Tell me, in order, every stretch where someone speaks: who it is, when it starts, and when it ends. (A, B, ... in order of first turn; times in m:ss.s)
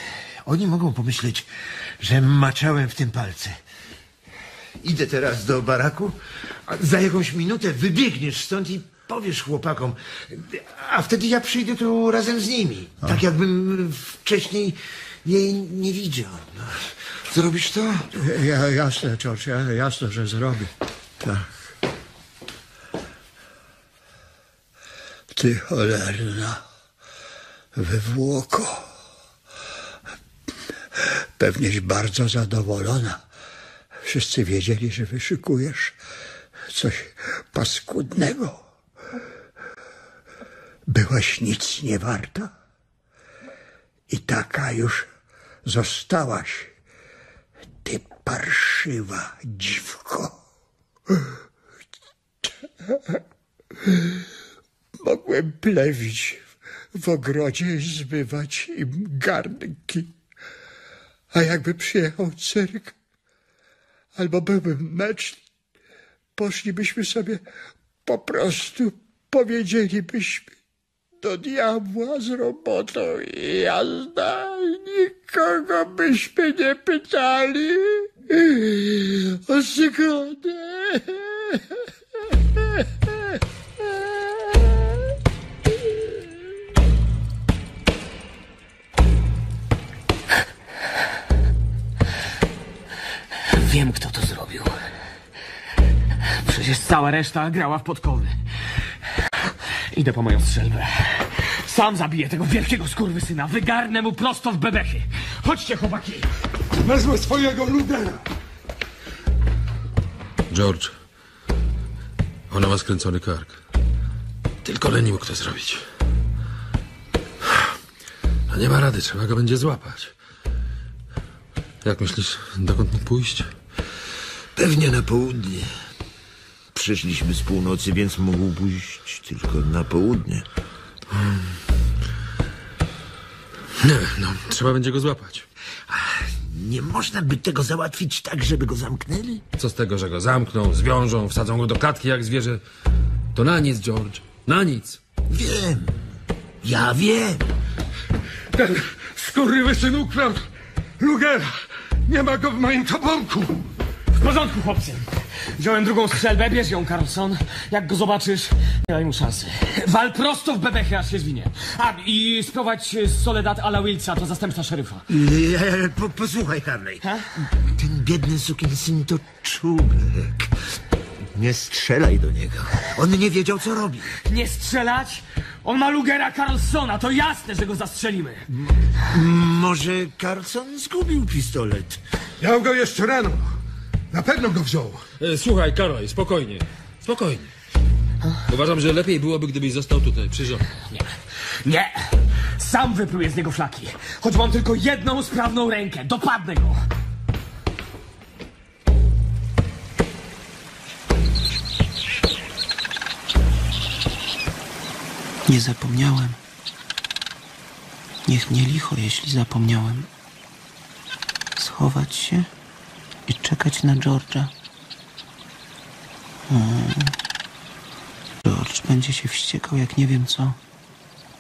0:00.4-0:03.6 A
0:04.8-0:18.1 A
0:18.1-0:21.4 B
0:25.3-0:26.6 B
0:27.8-0:28.9 B
0:31.0-0:33.2 B
0:34.1-0:36.0 B
0:36.7-0:38.6 B
0:40.9-0:42.5 B
0:44.1-0:45.1 B
0:45.6-0:46.7 B
0:47.8-0:50.4 B
0:51.1-0:51.4 B
0:52.4-0:53.2 B
0:53.8-0:54.3 B
0:55.0-1:00.1 B
1:01.3-1:03.0 B
1:04.2-1:05.4 B
1:06.4-1:07.4 B
1:08.1-1:10.5 B
1:11.2-1:21.8 B
1:22.7-1:23.3 B
1:33.5-1:34.7 C
1:36.4-1:38.4 C
1:39.9-1:46.3 C
1:46.8-1:48.2 D
1:50.5-1:50.9 E
1:52.5-1:53.6 E
1:54.6-1:55.8 E
1:58.5-2:00.1 E
2:01.8-2:03.5 E
2:04.6-2:05.7 A
2:06.7-2:10.4 A
2:13.8-2:15.5 E
2:15.9-2:19.4 A
2:19.6-2:22.6 E
2:23.3-2:25.0 E
2:25.3-2:26.0 A
2:26.6-2:27.5 A
2:28.5-2:30.5 D
2:31.0-2:33.7 D
2:34.2-2:45.0 C
2:45.1-2:50.5 A
2:51.3-2:54.1 A
2:54.3-2:58.5 C
2:59.1-3:02.0 A
3:02.4-3:03.5 D
3:04.1-3:05.0 D
3:05.2-3:07.5 E
3:08.5-3:10.7 E
3:11.6-3:11.9 C
3:12.6-3:16.8 C
3:25.5-3:26.4 F
3:28.3-3:30.1 F
3:31.6-3:32.5 F
3:33.3-3:34.5 F
3:36.5-3:37.2 F
3:38.4-3:40.6 F